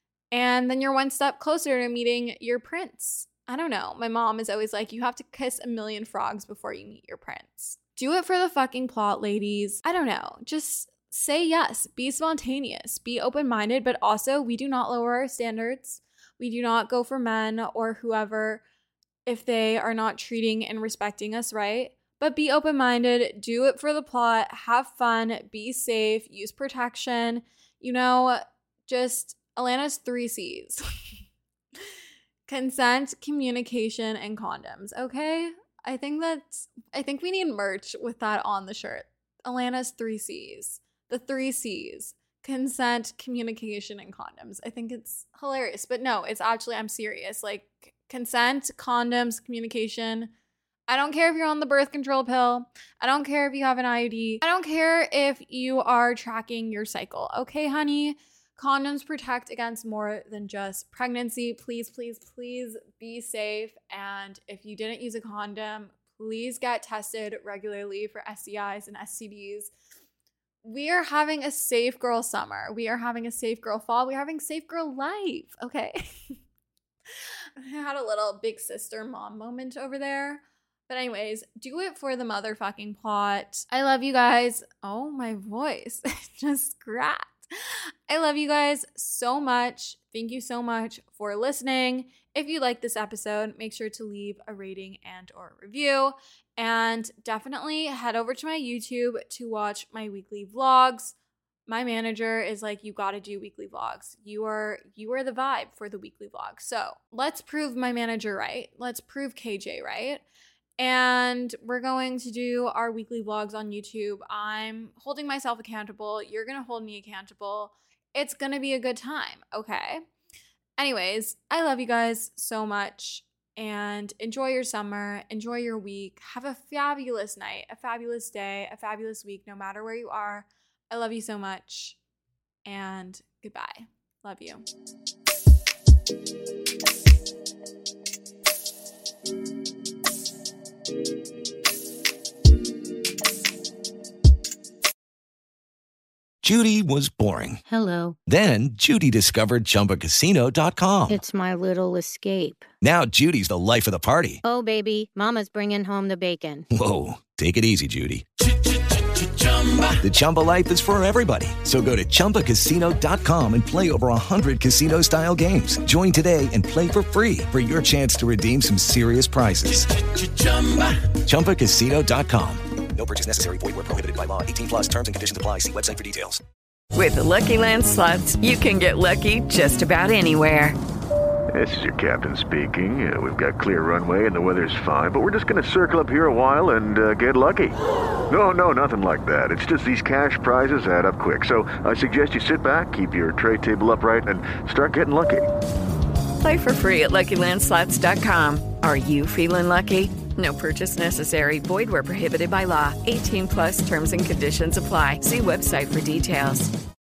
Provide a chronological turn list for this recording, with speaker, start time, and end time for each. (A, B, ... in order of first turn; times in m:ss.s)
0:00.3-0:18.6 A
0:19.2-0:30.8 A
0:32.5-0:50.3 A
0:50.9-1:09.7 A
1:10.6-1:16.4 A
1:17.6-1:41.1 A
1:41.7-1:50.2 A
1:50.8-2:00.0 A
2:00.8-2:12.0 A
2:12.6-2:14.6 A
2:26.4-2:27.6 B
2:27.6-2:28.2 C
2:28.2-2:31.2 B
2:31.1-2:32.7 C
2:32.8-2:34.4 B
2:34.4-2:36.6 C
2:36.7-2:38.2 B
2:39.9-2:50.0 B
2:51.2-2:52.6 B
2:52.9-2:56.4 D
2:56.9-3:00.8 E
3:01.5-3:07.7 F
3:08.3-3:15.4 F
3:16.4-3:26.7 E